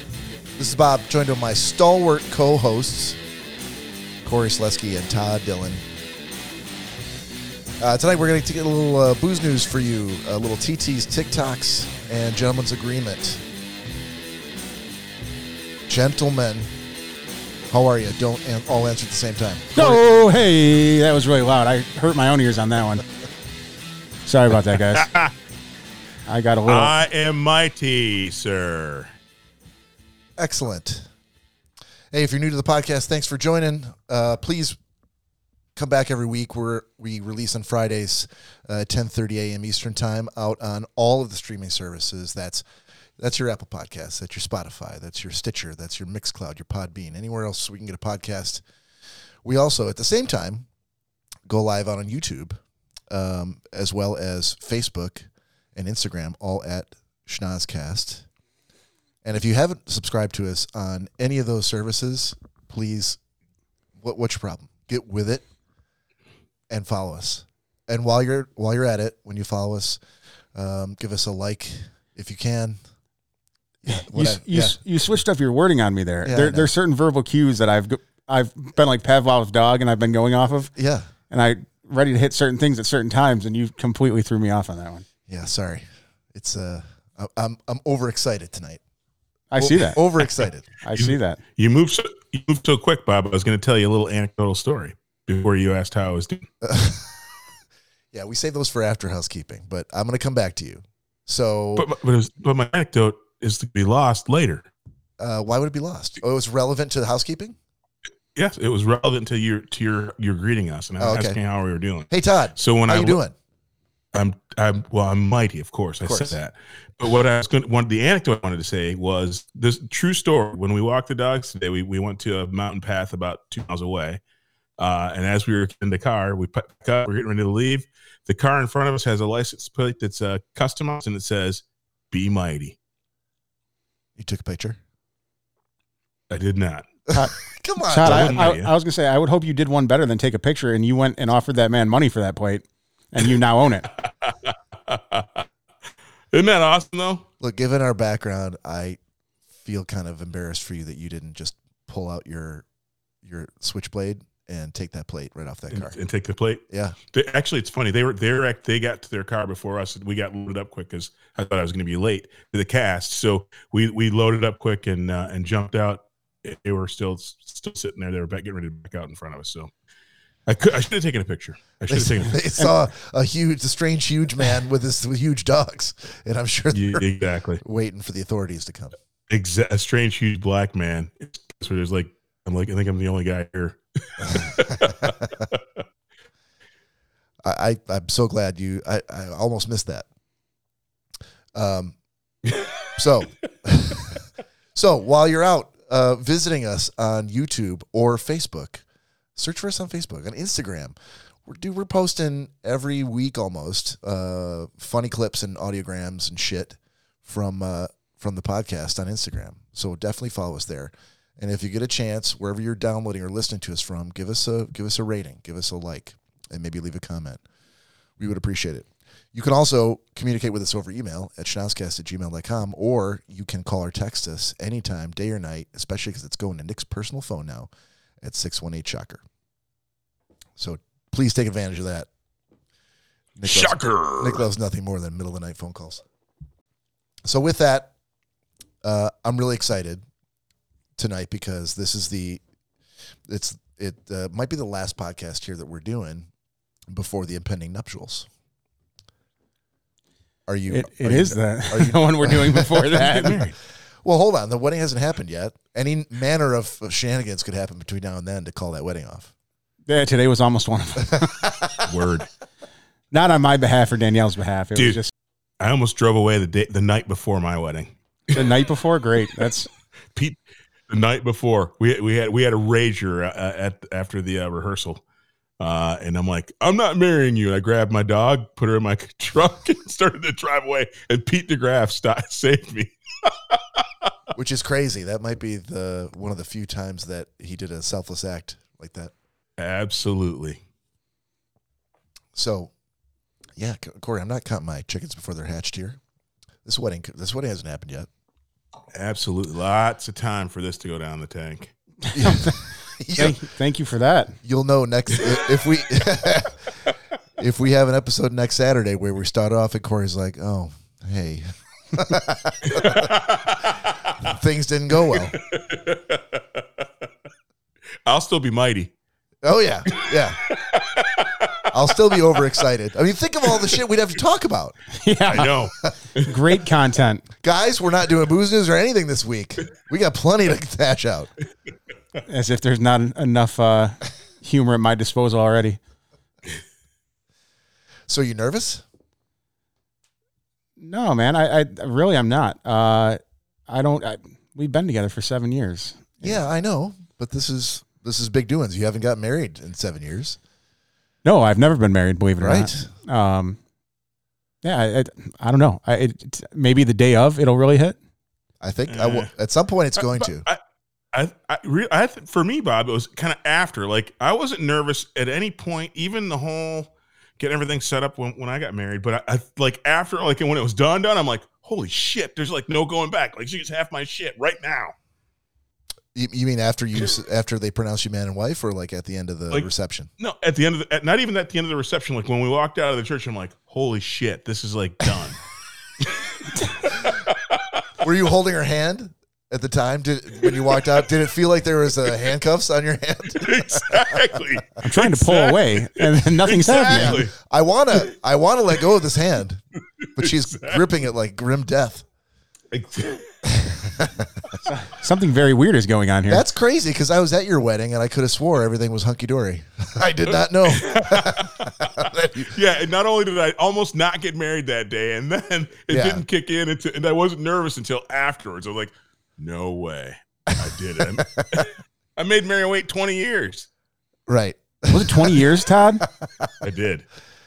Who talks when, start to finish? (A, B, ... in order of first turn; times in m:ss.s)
0:00.6-0:03.2 A
0:04.2-0:05.8 A
0:07.8-0:13.4 A
0:15.9-0:16.7 A
0:17.7-0:20.0 A
0:19.8-0:23.0 B
0:24.2-0:25.1 B
0:24.8-0:25.3 C
0:26.3-0:26.9 B
0:26.7-0:29.1 C
0:30.4-0:31.1 A
0:32.1-0:34.8 A
0:35.8-0:42.6 A
0:43.2-0:48.6 A
0:49.4-0:50.7 A
0:51.5-0:52.6 A
0:53.1-0:58.3 A
0:59.2-1:03.2 A
1:04.0-1:05.4 A
1:06.7-1:10.0 A
1:10.6-1:12.8 A
1:13.8-1:14.8 A
1:13.9-1:20.7 B
1:16.2-1:16.7 A
1:20.7-1:21.1 A
1:21.3-1:25.0 B
1:25.3-1:28.8 A
1:29.5-1:30.0 B
1:29.6-1:30.7 A
1:30.8-1:31.4 B
1:31.0-1:36.5 C
1:36.6-1:37.1 A
1:38.1-1:41.9 A
1:41.8-1:44.7 C
1:45.2-1:47.6 A
1:48.4-1:53.2 C
1:51.0-1:51.4 A
1:52.1-1:53.3 A
1:54.1-2:04.2 C
1:56.0-1:56.4 A
2:04.8-2:12.8 C
2:14.2-2:14.8 A
2:16.3-2:16.9 C
2:17.1-2:18.4 A
2:17.9-2:23.9 B
2:18.0-2:18.7 C
2:24.9-2:25.4 C
2:26.3-2:27.2 C
2:27.4-2:29.0 A
2:29.6-2:32.6 A
2:33.2-2:36.0 A
2:35.7-2:36.6 C
2:36.7-2:37.0 A
2:37.1-2:49.7 C
2:50.5-2:52.4 C
2:51.9-2:57.0 A
2:56.7-2:57.6 C
2:57.6-2:59.0 A
2:59.3-3:05.6 C
3:04.8-3:05.4 A
3:07.4-3:10.1 A
3:11.6-3:12.0 A
3:13.0-3:14.2 A
3:14.8-3:18.8 A
3:19.4-3:37.4 A
3:38.2-3:47.7 A
3:48.2-3:49.2 A
3:50.6-3:52.1 A
3:53.4-3:56.0 A
3:53.4-3:54.4 C
3:57.2-3:57.9 A
3:58.8-4:00.0 A
4:01.0-4:02.4 A
4:03.3-4:06.3 A
4:06.9-4:08.3 A
4:10.5-4:13.5 A
4:10.7-4:13.4 B
4:13.1-4:13.5 C
4:14.0-4:19.3 A
4:19.9-4:21.4 B
4:21.2-4:21.7 A
4:21.9-4:22.3 C
4:23.1-4:25.1 B
4:25.6-4:28.4 C
4:28.3-4:29.7 B
4:30.9-4:35.0 C
4:35.6-4:43.8 C
4:44.3-4:49.1 A
4:49.6-4:50.6 C
4:52.4-4:52.7 A
4:53.6-4:56.0 A
4:56.6-4:58.1 A
4:58.9-5:01.7 C
5:02.1-5:02.5 B
5:02.1-5:03.4 A
5:03.2-5:04.4 B
5:04.4-5:06.6 A
5:07.4-5:13.1 A
5:12.7-5:13.8 C
5:14.2-5:15.4 A
5:15.3-5:16.6 C
5:18.1-5:18.9 C
5:19.4-5:20.4 A
5:20.0-5:21.6 C
5:21.7-5:24.8 A
5:25.0-5:25.5 B
5:25.3-5:26.3 C
5:26.2-5:27.2 B
5:27.4-5:31.3 A
5:32.3-5:35.8 B
5:38.1-5:38.8 A
5:40.8-5:46.4 B
5:46.2-5:50.4 A
5:51.2-5:53.6 B
5:52.4-5:52.9 A
5:54.6-5:58.0 B
5:58.6-6:00.5 A
5:58.9-5:59.3 C
6:00.0-6:00.6 C
6:01.1-6:14.9 C
6:16.2-6:20.1 A
6:20.2-6:25.4 C
6:26.8-6:27.6 C
6:28.0-6:34.4 A
6:33.4-6:37.3 C
6:34.8-6:37.2 B
6:36.8-6:39.6 A
6:40.2-6:42.0 A
6:40.2-6:40.8 C
6:42.7-6:43.3 C
6:43.5-6:44.3 A
6:44.6-6:46.4 B
6:46.3-6:52.5 A
6:50.6-6:51.5 C
6:52.5-7:03.7 C
6:55.9-6:56.2 A
7:01.2-7:01.4 A
7:04.3-7:05.5 A
7:04.9-7:06.0 B
7:06.2-7:06.5 A
7:06.6-7:07.1 C